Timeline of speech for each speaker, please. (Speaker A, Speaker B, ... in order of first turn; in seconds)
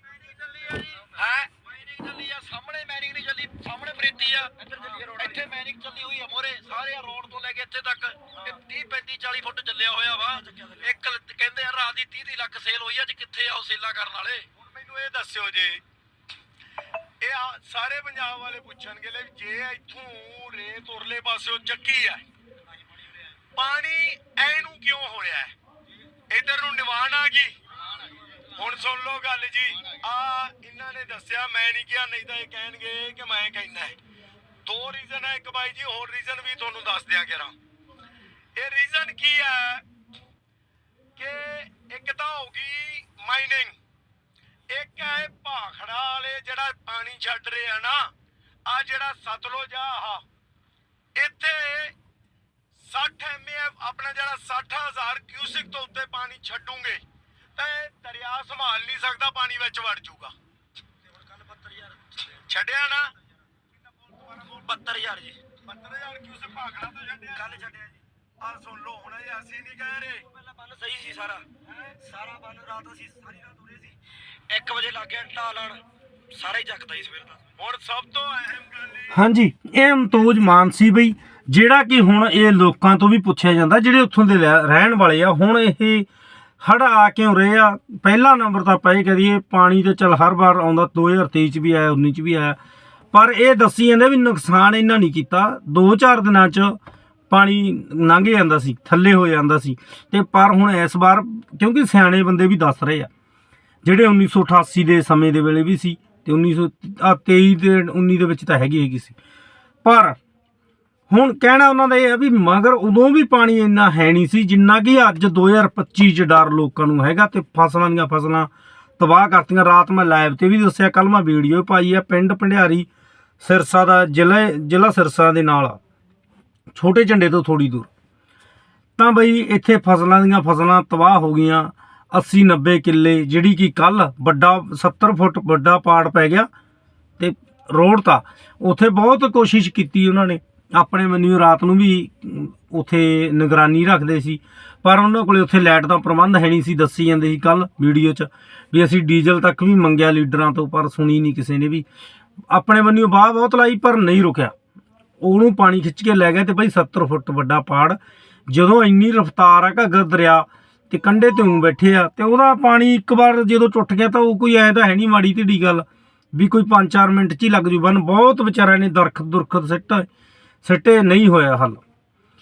Speaker A: 0.2-14.5, 64.7-65.3, 74.5-75.7, 76.3-77.4
Speaker B: 4.9-5.2, 14.6-15.8, 17.2-22.3, 23.6-25.6, 26.3-27.6, 28.6-34.0, 34.6-37.6, 38.6-39.9, 41.2-43.8, 44.7-48.1, 48.7-50.2, 51.2-52.0, 52.8-57.0, 57.6-60.4, 62.1-63.1, 64.0-64.7, 65.6-73.9, 77.6-79.2
Speaker C: 79.1-86.1, 86.6-92.6, 93.1-96.8, 97.3-103.1, 103.8-109.2, 109.8-110.2, 111.1-122.9, 123.4-125.8, 126.7-127.9, 129.0-136.5, 137.2-151.8, 152.5-154.6, 155.2-158.0, 158.5-170.1, 170.6-171.8